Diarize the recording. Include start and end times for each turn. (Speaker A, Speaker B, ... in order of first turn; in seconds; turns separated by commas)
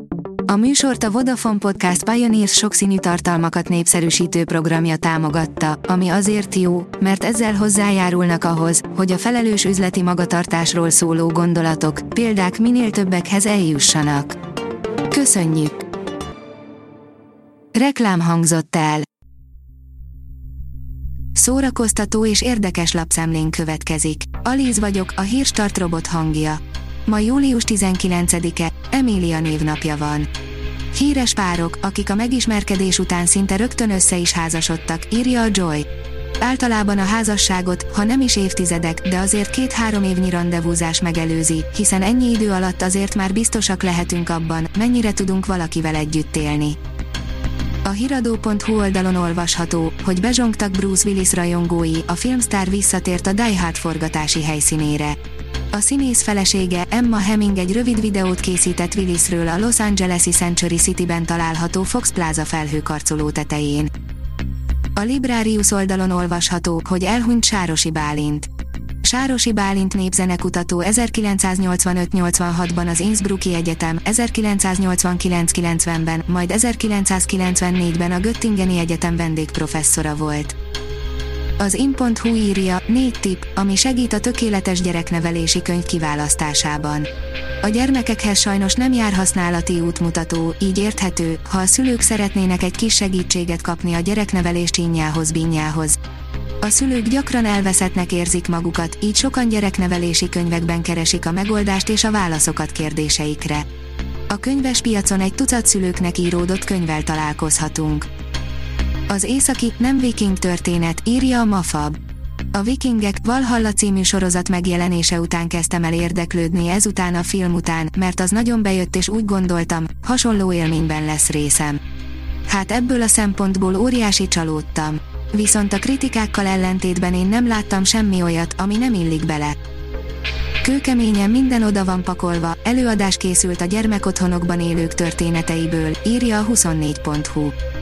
Speaker A: 0.5-14.4, Speaker A: 15.1-15.9, Speaker A: 17.7-19.1, Speaker A: 21.3-30.3, Speaker A: 30.9-35.9, Speaker A: 36.4-46.8, Speaker A: 47.8-55.2, Speaker A: 55.7-63.9, Speaker A: 65.0-68.5, Speaker A: 69.0-80.6, Speaker A: 81.6-87.1, Speaker A: 87.6-96.0, Speaker A: 96.6-103.7, Speaker A: 104.3-108.1, Speaker A: 109.1-112.0, Speaker A: 112.5-121.8, Speaker A: 122.5-129.6, Speaker A: 130.6-137.5